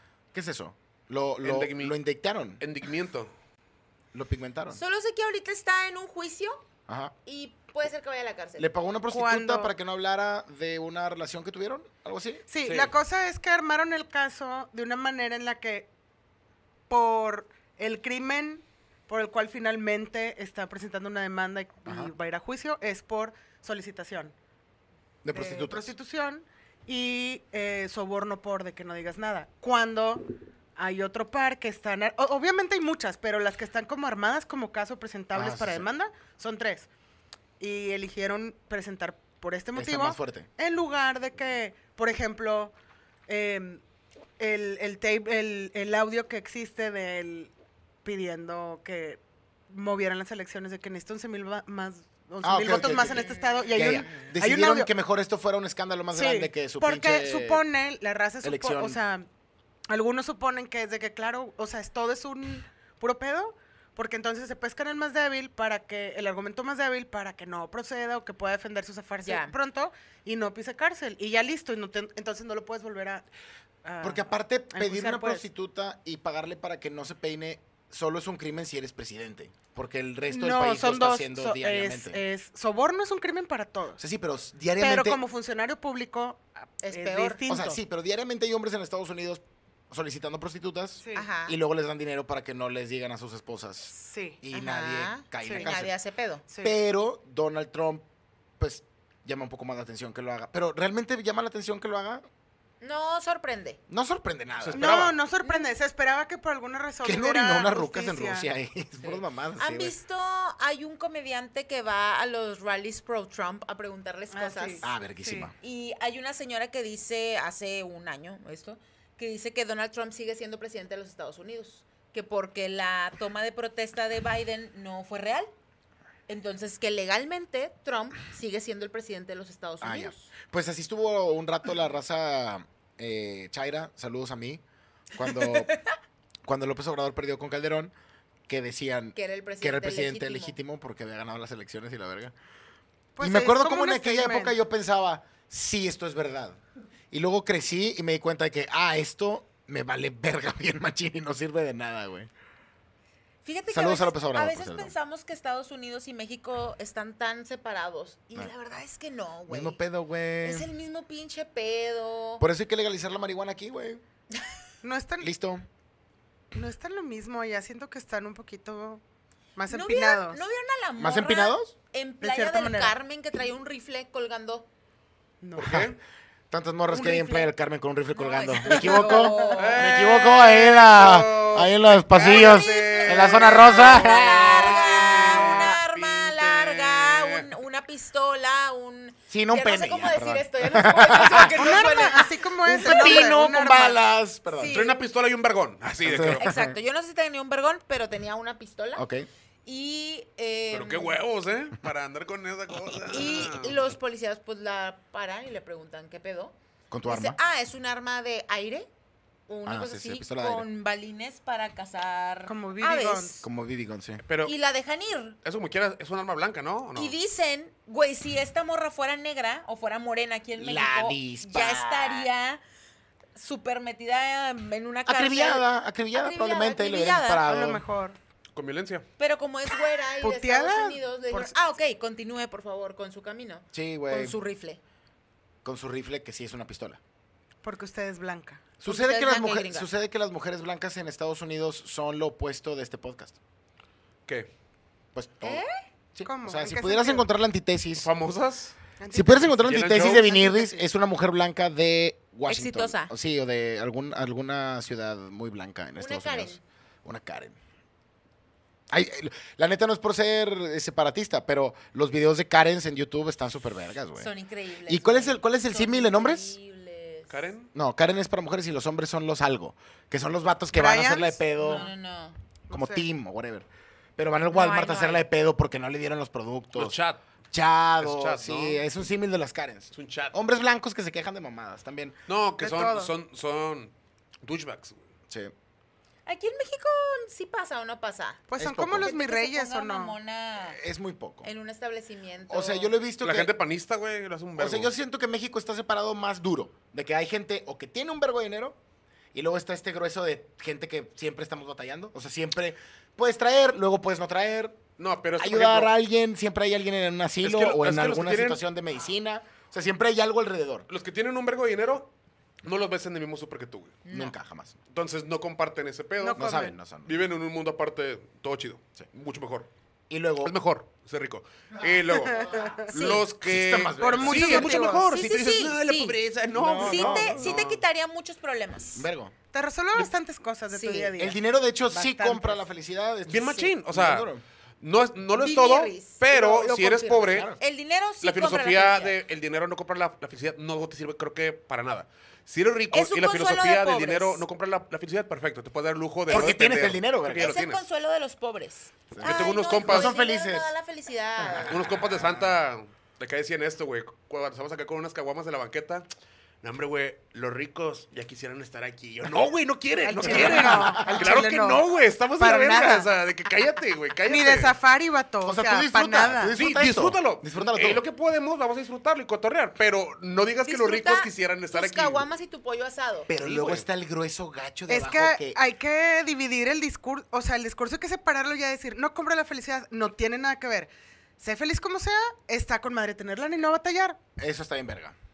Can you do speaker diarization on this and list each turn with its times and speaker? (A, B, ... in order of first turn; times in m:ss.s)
0:00.3-0:02.6 A
0:01.4-0:02.0 B
0:02.6-0:03.3 B
0:04.1-0:04.8 A
0:04.7-0:06.6 C
0:06.9-0:07.1 A
0:07.2-0:08.7 C
0:08.6-0:12.4 A
0:09.1-0:09.7 D
0:12.5-0:15.9 D
0:12.6-0:13.0 B
0:16.9-0:24.3 D
0:21.9-0:22.1 A
0:25.2-0:25.9 A
0:25.3-0:36.9 D
0:35.3-0:35.9 A
0:37.6-0:42.8 D
0:39.8-0:40.5 A
0:43.3-0:43.8 D
0:44.4-0:47.5 D
0:48.0-0:54.9 D
0:52.4-0:57.6 A
0:56.1-0:59.3 D
0:58.4-0:59.0 A
0:59.9-1:13.3 D
1:09.2-1:09.6 C
1:13.8-1:15.4 D
1:14.0-1:22.2 A
1:20.3-1:24.0 D
1:24.0-1:25.2 A
1:24.8-1:27.8 D
1:26.8-1:27.4 C
1:27.5-1:36.0 A
1:31.0-1:31.3 D
1:31.1-1:31.6 C
1:33.9-1:34.4 D
1:34.5-1:36.4 C
1:35.4-1:35.7 D
1:36.5-1:36.8 D
1:36.6-1:38.1 A
1:38.6-1:42.2 A
1:42.8-1:43.8 C
1:43.9-1:45.1 A
1:44.6-1:45.2 B
1:44.8-1:48.5 D
1:45.4-1:45.7 C
1:47.0-1:50.0 A
1:49.6-1:54.9 C
1:54.3-1:55.5 D
1:54.8-1:55.5 A
1:55.6-2:05.5 C
2:06.3-2:10.3 C
2:09.8-2:14.6 A
2:15.1-2:15.7 A
2:15.3-2:15.8 C
2:16.4-2:17.9 A
2:18.5-2:22.3 A
2:19.2-2:20.6 C
2:23.2-2:24.6 D
2:23.2-2:26.6 A
2:27.1-2:32.3 A
2:33.4-2:39.8 C
2:33.7-2:35.0 A
2:39.5-2:40.7 A
2:40.4-2:42.4 C
2:42.4-2:44.0 A
2:44.8-2:45.3 D
2:45.2-2:45.6 A
2:46.5-2:49.0 D
2:49.6-2:50.4 D
2:49.7-2:54.7 C
2:51.0-2:51.8 A
2:52.2-2:53.0 D
2:55.4-2:55.8 D
2:55.6-2:56.0 B
2:55.6-2:55.9 A
2:56.5-3:04.7 A
2:56.9-2:57.5 D
2:58.1-3:00.0 C
2:58.7-2:59.6 D
2:59.6-3:07.5 B
3:02.2-3:13.3 C
3:09.3-3:12.1 A
3:11.5-3:14.0 D
3:12.6-3:14.8 A
3:14.5-3:15.0 C
3:14.7-3:16.5 B
3:16.0-3:16.8 A
3:16.4-3:19.0 C
3:19.0-3:19.3 A
3:19.6-3:21.2 C
3:20.7-3:23.8 B
3:23.1-3:28.9 C
3:26.9-3:27.4 A
3:29.5-3:33.5 C
3:29.7-3:30.7 A
3:32.5-3:33.4 D
3:33.4-3:34.2 A
3:34.3-3:34.5 B
3:34.4-3:35.4 C
3:35.4-3:37.2 B
3:37.0-3:42.6 C
3:40.6-3:42.3 A
3:43.4-3:47.4 C
3:45.1-3:47.8 A
3:47.4-3:48.2 D
3:48.5-3:49.1 B
3:49.2-3:54.8 C
3:50.2-3:51.5 D
3:53.7-3:54.4 A
3:55.6-3:57.0 A
3:57.6-3:58.6 D
3:58.8-4:03.4 A
3:58.8-3:59.9 C
4:05.2-4:08.1 A
4:05.4-4:05.7 C
4:06.3-4:07.3 D
4:08.0-4:08.8 B
4:09.0-4:10.8 D
4:09.1-4:17.6 A
4:09.6-4:10.3 B
4:12.5-4:13.1 C
4:16.0-4:16.6 C
4:18.9-4:24.3 A
4:24.2-4:27.4 C
4:24.9-4:26.5 A
4:27.3-4:27.7 B
4:27.7-4:31.9 A
4:30.7-4:31.9 D
4:31.6-4:32.4 C
4:32.7-4:33.0 D
4:32.7-4:33.7 A
4:34.2-4:37.0 A
4:34.5-4:35.2 C
4:36.8-4:37.2 B
4:37.5-4:42.2 A
4:38.0-4:38.8 B
4:40.0-4:40.4 B
4:42.3-4:43.9 B
4:42.6-4:43.1 D
4:44.4-4:45.0 B
4:46.3-4:48.4 C
4:48.5-4:50.2 D
4:48.6-4:49.1 A
4:49.0-4:50.8 C
4:50.6-4:51.5 A
4:51.4-4:52.9 C
4:52.5-4:53.5 A
4:53.2-4:54.9 B
4:54.6-4:58.8 A
4:59.3-5:04.8 A
5:05.0-5:05.9 B
5:05.4-5:10.9 A
5:07.4-5:08.6 B
5:10.9-5:12.1 B
5:12.6-5:14.0 B
5:14.0-5:14.4 C
5:14.1-5:14.8 A
5:14.9-5:19.7 B
5:16.2-5:16.8 D
5:16.4-5:17.2 A
5:20.1-5:20.6 A
5:20.4-5:27.8 B
5:22.3-5:22.8 D
5:22.9-5:23.2 C
5:23.0-5:24.9 A
5:24.0-5:25.1 D
5:24.5-5:26.2 C
5:26.5-5:27.5 A
5:26.8-5:29.1 C
5:29.0-5:29.3 A
5:29.5-5:32.6 D
5:30.7-5:31.2 C
5:31.2-5:34.4 A
5:33.3-5:34.3 B
5:34.8-5:37.5 B
5:35.4-5:39.2 C
5:37.2-5:37.6 A
5:38.2-5:47.8 B
5:42.9-5:44.4 C
5:46.3-5:47.6 A
5:47.4-5:51.8 C
5:49.1-5:50.7 A
5:49.2-5:50.1 B
5:51.4-5:52.4 A
5:51.6-5:56.1 B
5:56.6-6:04.8 B
6:00.0-6:01.8 D
6:00.2-6:01.4 A
6:02.4-6:03.1 D
6:04.3-6:06.6 D
6:05.4-6:08.0 A
6:06.5-6:12.2 B
6:10.7-6:13.3 C
6:13.3-6:15.6 A
6:13.4-6:13.8 B
6:14.9-6:24.2 D
6:24.4-6:25.2 A